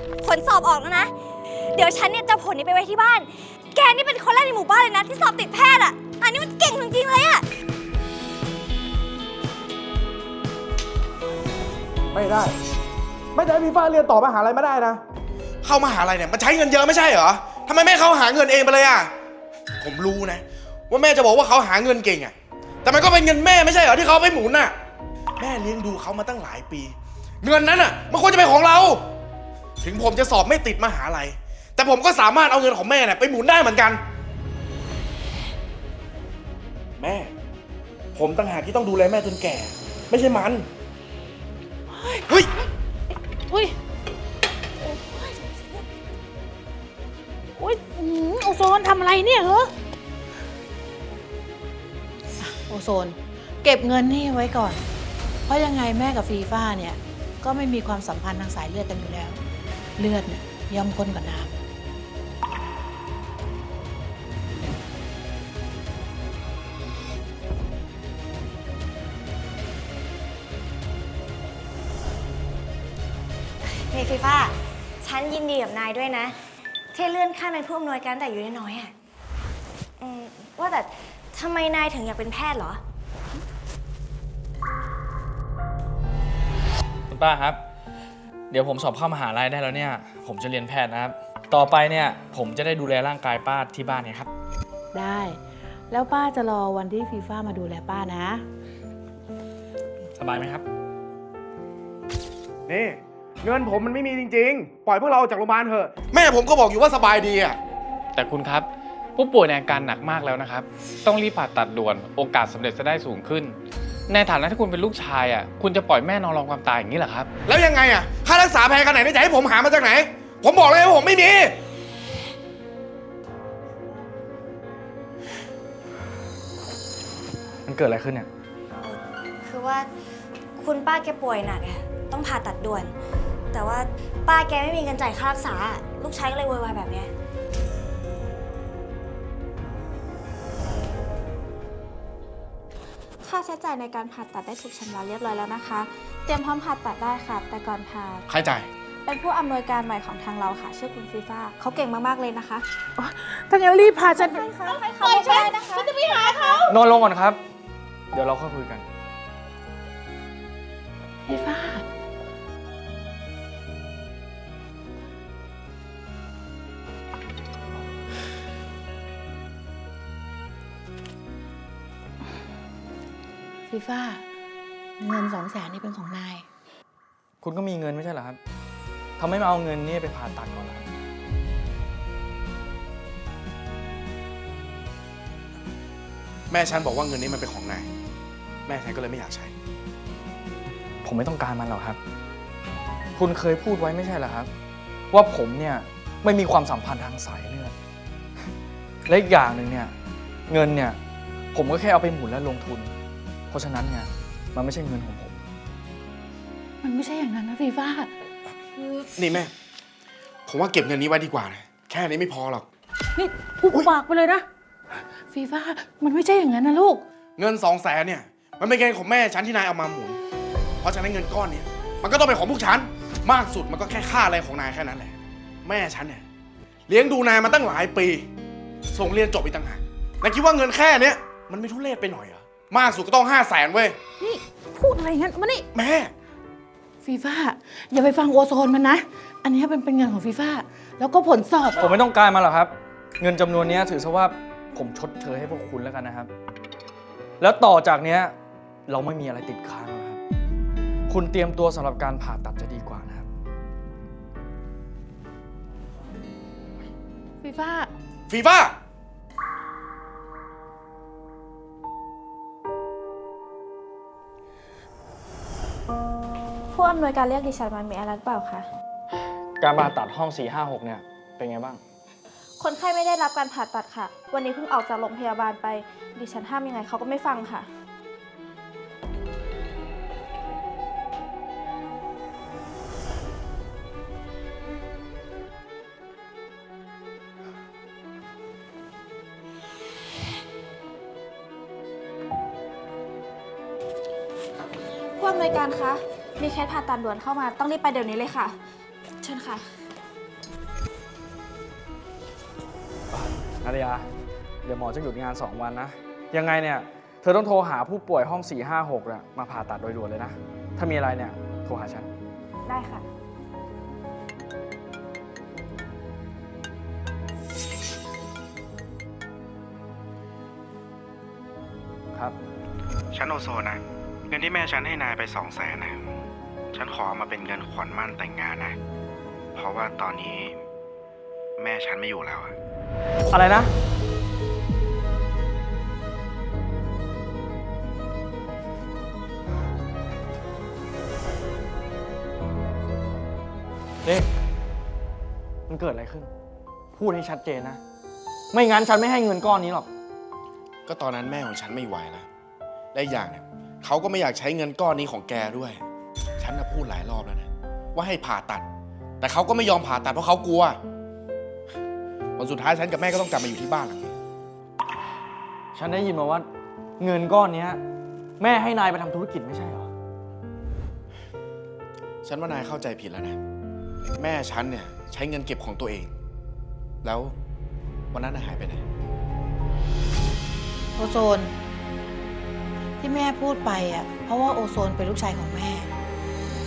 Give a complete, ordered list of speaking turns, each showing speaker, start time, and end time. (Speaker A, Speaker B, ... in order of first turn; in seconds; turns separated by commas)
Speaker A: 0.2-7.5, Speaker B: 12.1-12.6, Speaker B: 13.3-15.0, Speaker B: 15.6-19.1, Speaker B: 19.8-24.8, Speaker B: 25.4-29.0, Speaker B: 29.8-34.0, Speaker B: 37.0-37.3, Speaker B: 38.1-40.7, Speaker C: 41.9-42.3, Speaker C: 43.5-43.7, Speaker C: 44.8-45.6, Speaker C: 47.6-49.7, Speaker C: 52.4-54.8, Speaker C: 55.5-59.4, Speaker C: 60.0-61.6, Speaker A: 73.8-76.4, Speaker A: 76.9-78.9, Speaker A: 80.0-82.8, Speaker D: 87.1-87.6, Speaker D: 88.5-94.3, Speaker C: 94.9-98.4, Speaker D: 100.2-100.6, Speaker B: 102.7-107.6, Speaker E: 108.1-113.6, Speaker E: 114.1-117.3, Speaker B: 117.5-121.6, Speaker D: 127.6-128.3, Speaker A: 128.8-129.9, Speaker A: 130.6-132.9, Speaker A: 133.5-137.1, Speaker F: 143.2-148.2, Speaker B: 148.3-148.7, Speaker F: 149.1-152.6, Speaker C: 153.0-156.7, Speaker F: 154.0-156.7, Speaker D: 156.7-157.4, Speaker D: 158.1-158.8, Speaker C: 161.3-161.8, Speaker C: 173.7-174.3, Speaker C: 175.0-176.4, Speaker D: 177.4-178.4, Speaker D: 179.2-180.8, Speaker B: 186.5-187.9, Speaker B: 188.7-189.5, Speaker D: 191.0-192.0, Speaker D: 193.2-194.5, Speaker D: 195.1-197.7, Speaker D: 199.1-199.9, Speaker D: 200.5-201.0, Speaker D: 201.5-202.9, Speaker D: 203.5-205.4, Speaker C: 206.8-208.1, Speaker C: 208.8-209.1, Speaker B: 209.2-209.5, Speaker B: 210.5-212.7, Speaker C: 213.2-214.4, Speaker C: 215.3-217.0, Speaker B: 217.4-220.2, Speaker B: 220.8-226.2, Speaker B: 226.9-228.3, Speaker B: 228.9-234.0, Speaker C: 234.2-235.7, Speaker B: 235.7-236.1, Speaker C: 237.0-241.9, Speaker D: 241.8-246.3, Speaker D: 247.4-248.3, Speaker D: 248.9-250.2, Speaker D: 251.1-253.3, Speaker C: 257.4-257.9, Speaker B: 258.3-258.8, Speaker F: 266.7-268.7, Speaker D: 269.6-271.8, Speaker F: 272.6-277.7, Speaker F: 295.2-298.6, Speaker F: 299.2-299.6, Speaker D: 303.1-304.1, Speaker D: 304.6-312.1, Speaker F: 312.6-313.0, Speaker B: 323.1-326.0, Speaker B: 326.7-328.8, Speaker B: 329.5-330.6, Speaker B: 331.6-332.5, Speaker D: 333.3-333.7, Speaker D: 345.7-346.3, Speaker D: 346.9-347.8, Speaker D: 348.5-349.9, Speaker B: 350.9-352.3, Speaker B: 352.9-355.8, Speaker B: 356.4-358.7, Speaker B: 359.2-360.8, Speaker B: 362.4-364.1, Speaker D: 365.7-366.5, Speaker D: 367.0-367.8, Speaker D: 368.4-369.9, Speaker B: 372.2-373.4, Speaker B: 374.2-376.1, Speaker B: 377.0-377.4, Speaker B: 378.1-378.8, Speaker C: 381.0-381.5, Speaker C: 383.0-385.9